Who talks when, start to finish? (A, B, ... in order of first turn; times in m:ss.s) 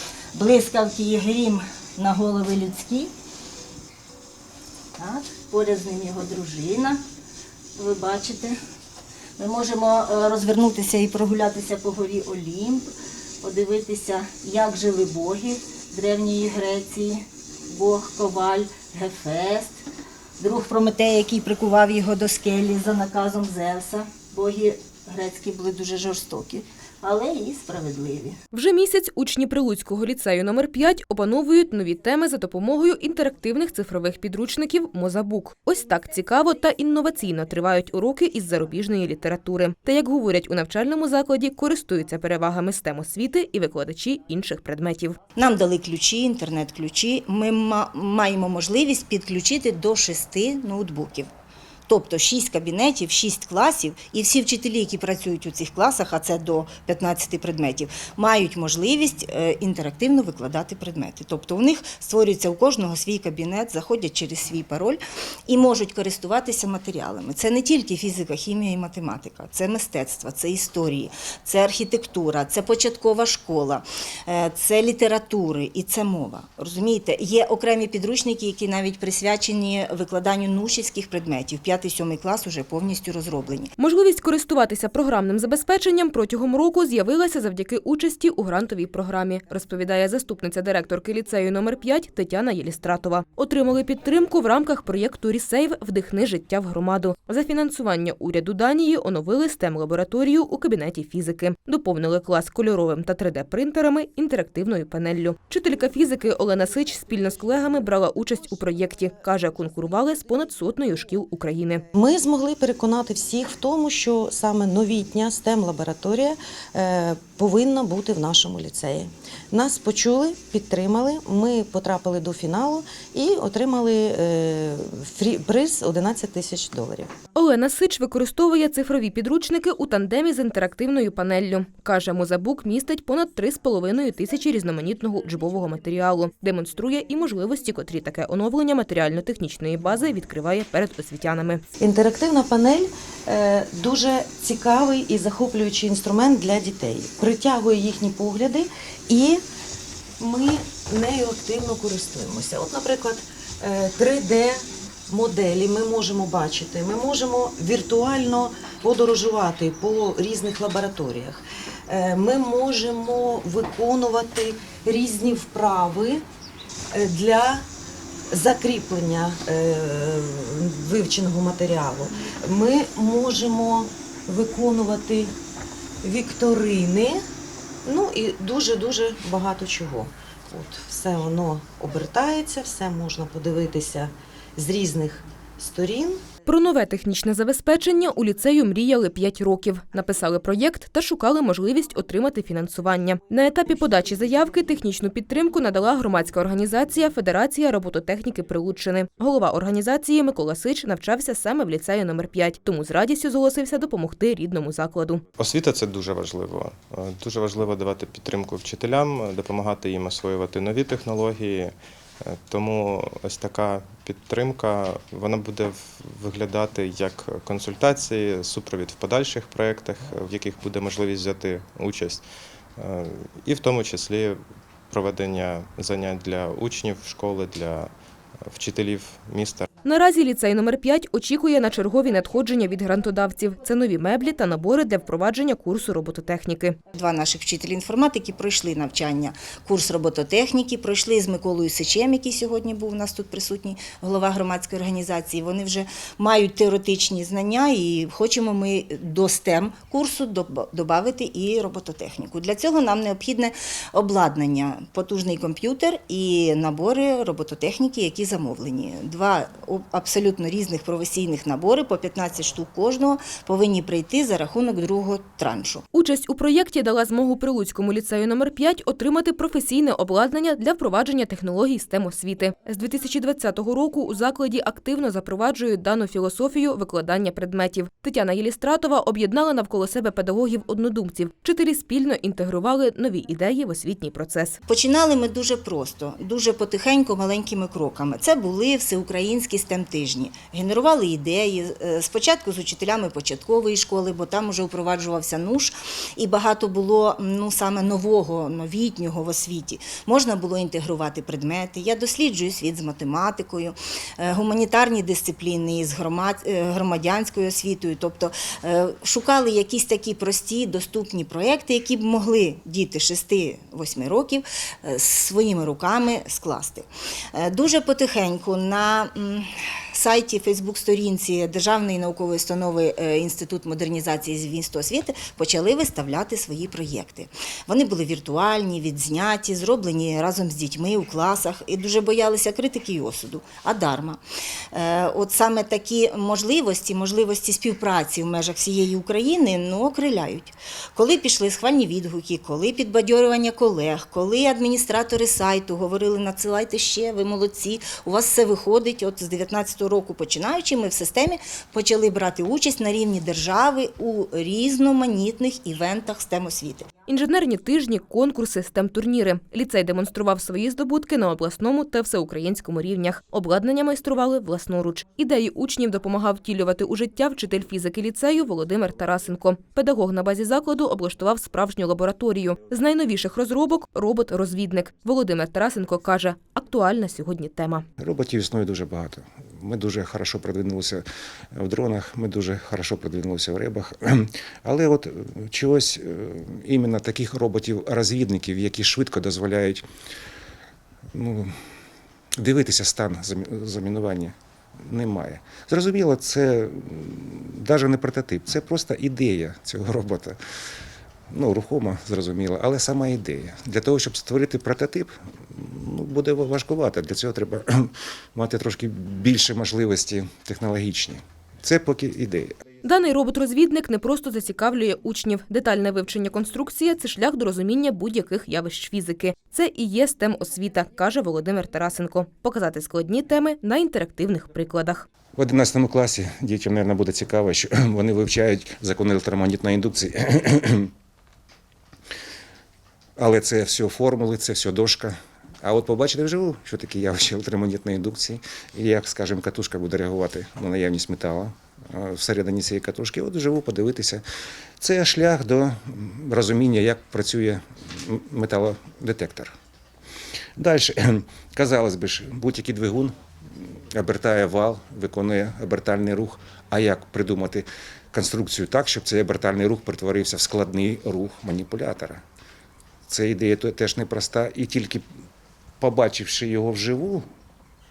0:00.3-0:03.1 A
0:05.0-0:07.0 A
0:07.8-0:08.6 A
0:09.4-0:12.9 A
0:13.4-0:19.8 A
0:20.4-0:28.4 A
0:28.5-0:45.2 B
0:45.4-0:51.3 A
0:51.9-1:23.7 A
1:23.8-1:51.8 B
1:51.9-2:07.1 C
2:07.4-2:21.6 B
2:21.8-2:29.4 C
2:30.2-2:46.2 C
2:46.9-2:47.6 C
2:48.3-2:55.3 C
2:56.0-2:57.2 C
2:57.8-3:06.2 C
3:06.4-3:25.2 B
3:25.4-3:42.2 D
3:42.8-3:47.9 D
3:48.4-3:49.7 D
3:49.8-3:56.8 B
3:56.9-4:25.8 A
4:25.9-4:44.6 B
4:44.7-5:34.2 A
5:34.7-5:56.9 A
5:57.1-6:17.8 B
6:18.0-6:29.8 E
6:31.1-6:31.5 E
6:32.4-6:34.3 E
6:34.8-6:40.4 E
6:41.3-6:52.5 E
6:52.8-7:05.0 B
7:05.4-7:10.9 E
7:13.2-7:24.2 E
7:24.8-7:29.5 E
7:30.6-7:33.1 E
7:33.9-7:42.2 E
7:43.1-7:45.0 E
7:45.8-7:47.2 E